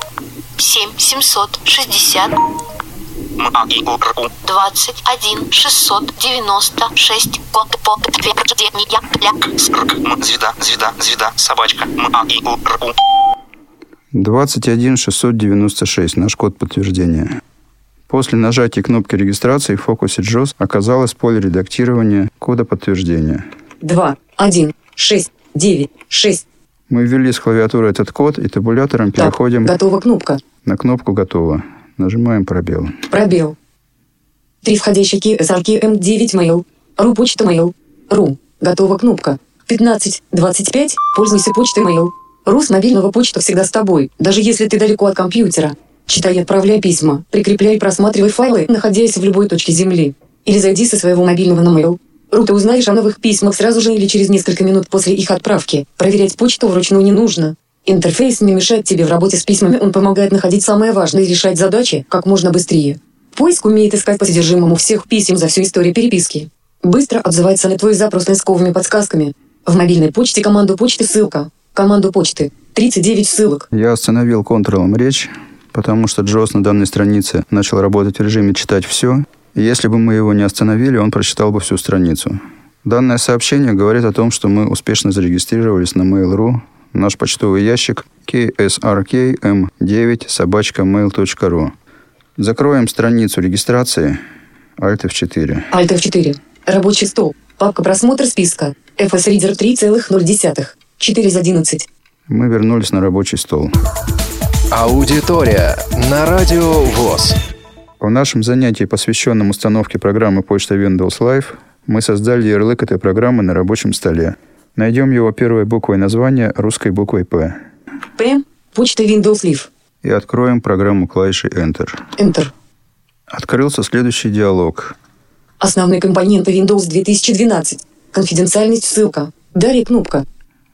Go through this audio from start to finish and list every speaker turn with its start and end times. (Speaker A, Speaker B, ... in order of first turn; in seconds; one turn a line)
Speaker A: 0.6-2.3
Speaker B: 3.4-5.5
Speaker A: 4.5-9.0
Speaker B: 8.4-12.9
Speaker C: 14.1-17.4
Speaker C: 18.1-23.4
Speaker D: 23.8-26.4
Speaker C: 26.9-29.7
Speaker D: 29.2-30.4
Speaker C: 30.6-33.0
Speaker D: 33.1-33.5
Speaker D: 34.6-73.7
Speaker C: 73.7-91.7
Speaker C: 92.4-94.2
Speaker C: 94.8-95.7
Speaker D: 95.7-101.9
Speaker C: 102.3-103.7
Speaker E: 104.7-107.4
Speaker C: 108.0-117.6
Speaker D: 118.2-119.7
Speaker C: 120.0-122.0
Speaker D: 122.2-122.5
Speaker C: 123.3-125.0
Speaker D: 125.6-130.2